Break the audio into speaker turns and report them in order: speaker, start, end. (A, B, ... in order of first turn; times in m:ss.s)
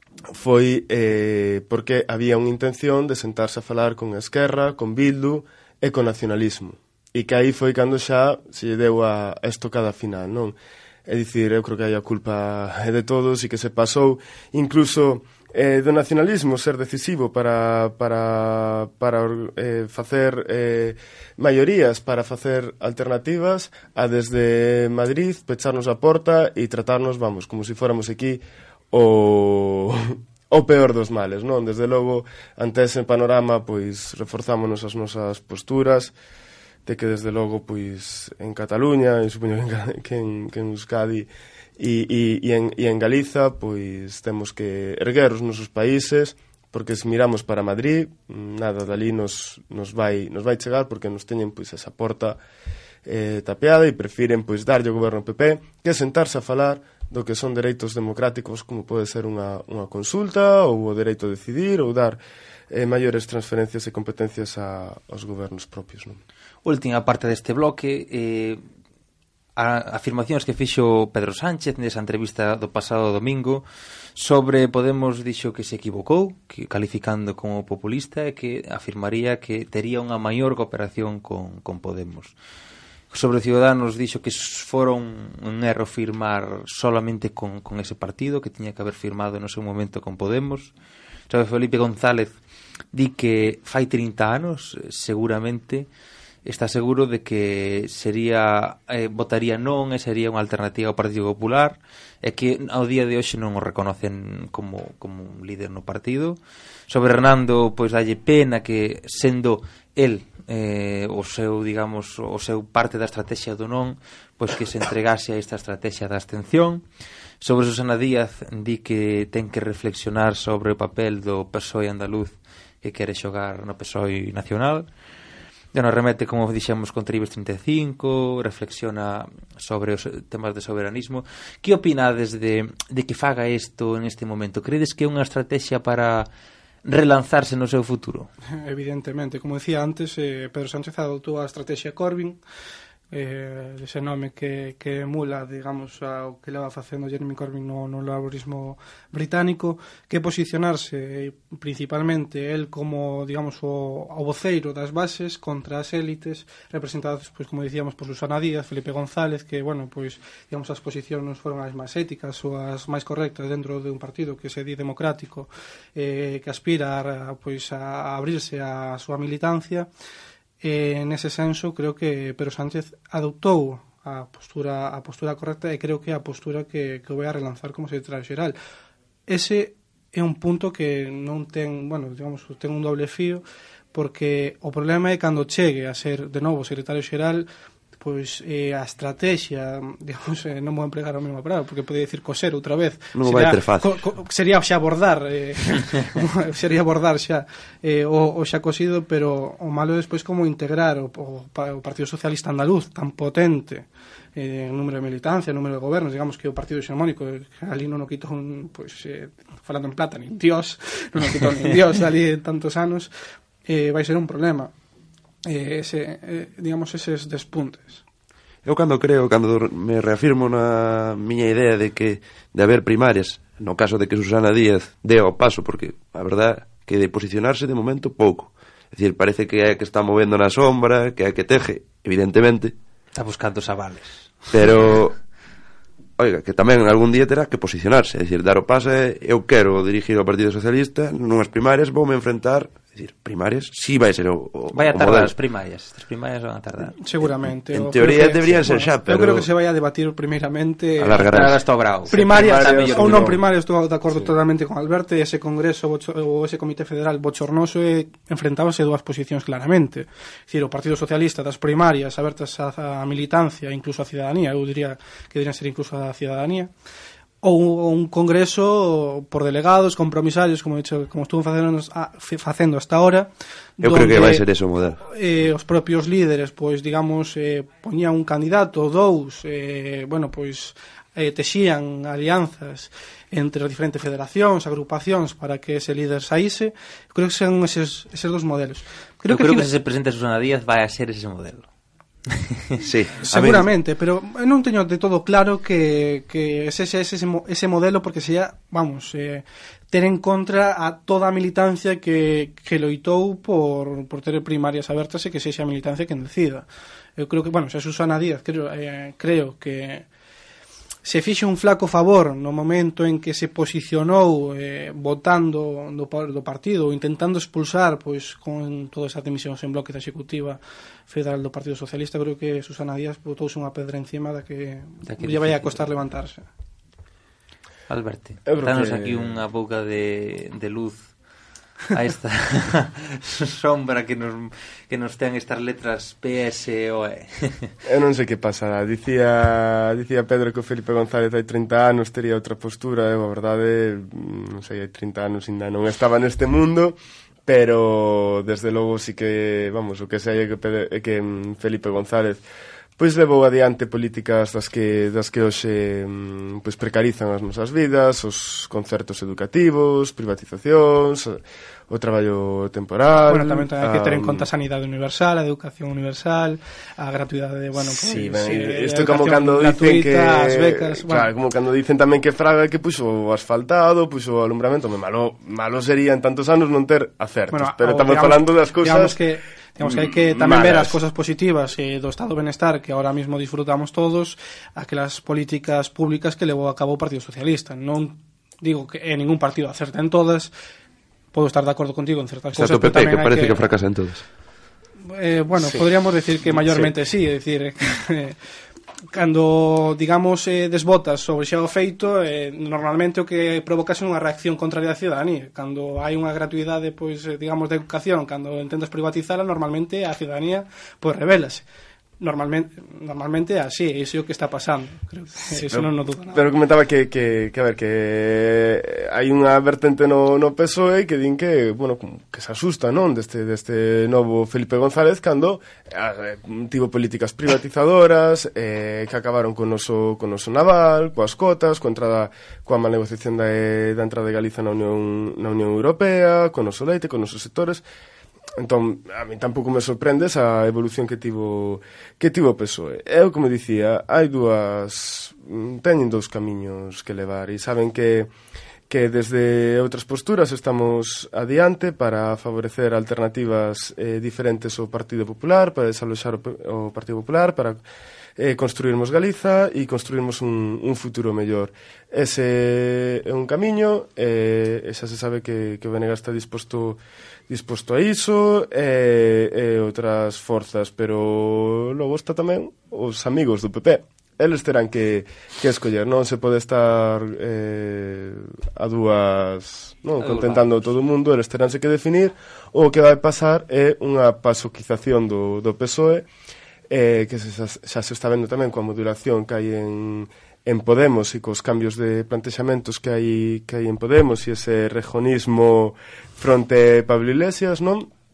0:00.3-0:36.1 A
0:36.8-0:52.4 A
0:53.0-1:06.2 A
1:06.6-1:08.6 B
1:09.6-1:13.6 B
1:14.1-1:22.3 B
1:23.1-1:30.7 B
1:31.3-1:32.4 B
1:32.9-1:35.9 B
1:36.4-1:56.8 B
1:57.4-2:04.9 B
2:05.7-2:16.3 B
2:16.8-2:18.3 B
2:18.6-2:22.4 C
2:23.1-2:49.9 C
2:50.6-2:58.6 C
2:59.3-3:03.4 C
3:03.9-3:33.1 C
3:13.1-3:14.0 D
3:33.6-3:34.7 C
3:35.4-3:38.0 C
3:38.6-3:52.7 D
3:53.1-3:54.3 B
3:54.5-3:55.2 D
3:56.2-4:05.3 D
4:04.7-4:07.0 B
4:07.0-4:11.4 C
4:07.7-4:09.5 D
4:11.0-4:11.6 D
4:11.2-4:13.3 B
4:12.1-4:26.7 C
4:12.1-4:13.4 A
4:27.4-4:34.4 C
4:33.8-4:35.0 D
4:35.0-4:49.7 C
4:49.3-4:51.7 B
4:52.4-4:52.6 B
4:52.8-4:53.7 D
4:53.2-5:10.0 C
5:11.0-5:26.4 C
5:25.1-5:25.8 B
5:27.9-5:31.1 B
5:28.4-5:29.4 A
5:31.9-5:37.7 B
5:37.8-5:52.4 A
5:53.0-6:04.5 A
6:03.3-6:11.3 C
6:07.7-6:19.2 A
6:17.5-6:30.5 C
6:19.8-6:21.0 A
6:31.3-6:33.7 C
6:32.5-6:34.2 D
6:35.0-6:38.4 C
6:36.4-6:36.9 D
6:39.1-6:51.6 C
6:52.2-6:56.4 C
6:56.3-7:17.8 A
7:18.6-7:28.3 A
7:28.9-7:37.8 A
7:38.4-8:06.3 A
8:00.2-8:00.6 B
8:06.9-8:18.1 A